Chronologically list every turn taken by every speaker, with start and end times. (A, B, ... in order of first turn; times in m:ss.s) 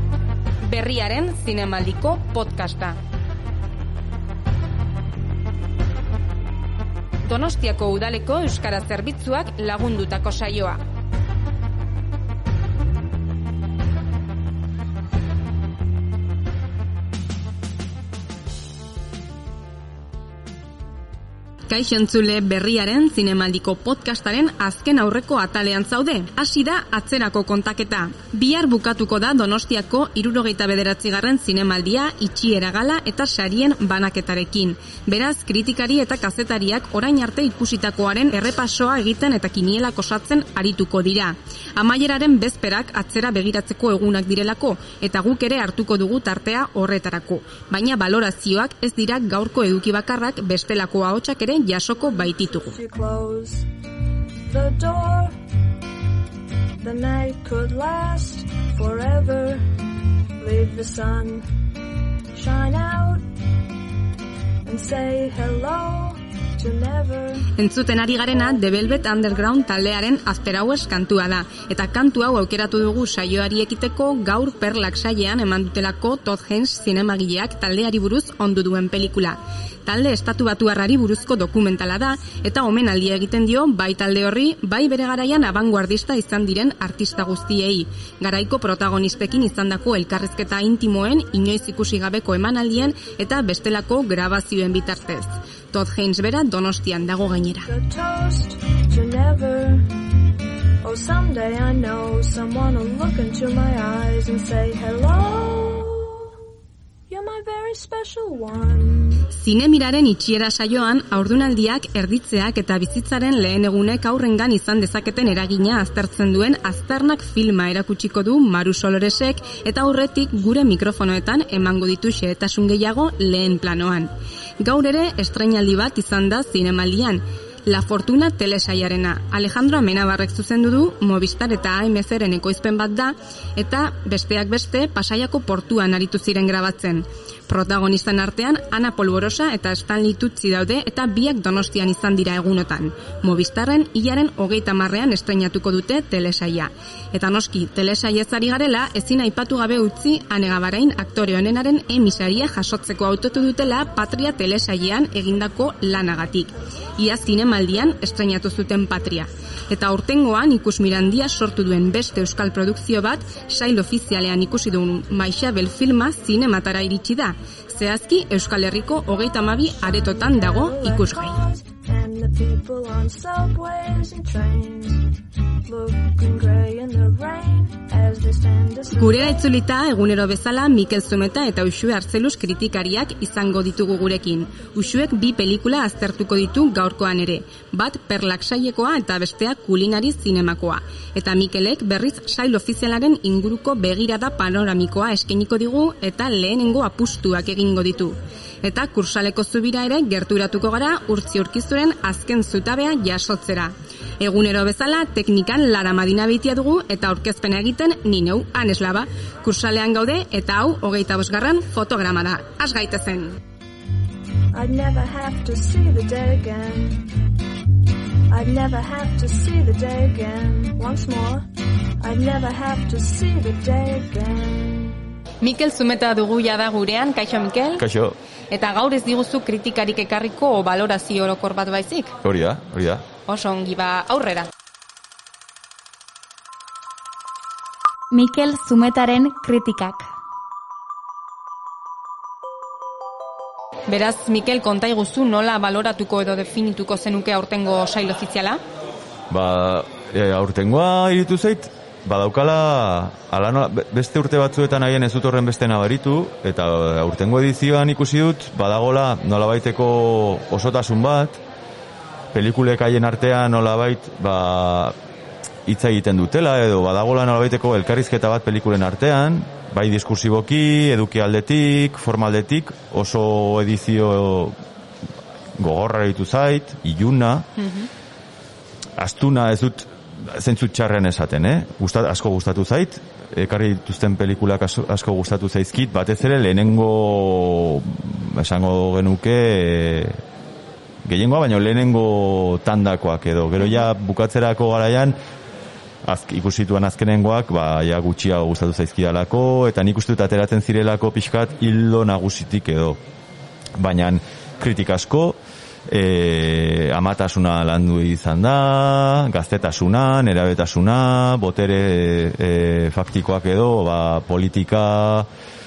0:00.6-0:03.0 A
0:07.2-0:10.8 A
0:21.7-0:52.8 A
0:52.6-0:53.7 B
0:54.4-0:55.4 B
0:56.8-0:59.8 B
1:00.4-1:01.4 B
1:02.3-1:03.3 B
1:04.6-1:07.5 B
1:07.6-1:37.7 A
1:37.6-1:39.9 B
1:40.8-1:46.2 B
1:47.1-1:49.3 B
1:49.3-2:51.4 A
2:49.8-2:59.5 B
2:58.9-3:33.4 A
3:34.5-3:37.1 B
3:38.3-3:41.4 B
3:42.0-3:45.1 B
3:45.4-3:47.8 A
3:47.8-3:48.1 C
3:48.5-3:52.1 A
3:52.2-3:53.0 C
3:53.3-3:54.5 A
3:58.1-4:00.1 D
4:03.9-4:08.6 A
4:09.3-4:21.4 C
4:22.3-4:24.9 C
4:25.6-4:34.6 C
4:35.6-4:37.4 C
4:37.6-4:37.9 A
4:39.0-4:50.2 C
4:51.0-4:55.2 C
4:56.0-5:03.0 C
5:03.8-5:05.4 C
5:05.9-5:15.3 C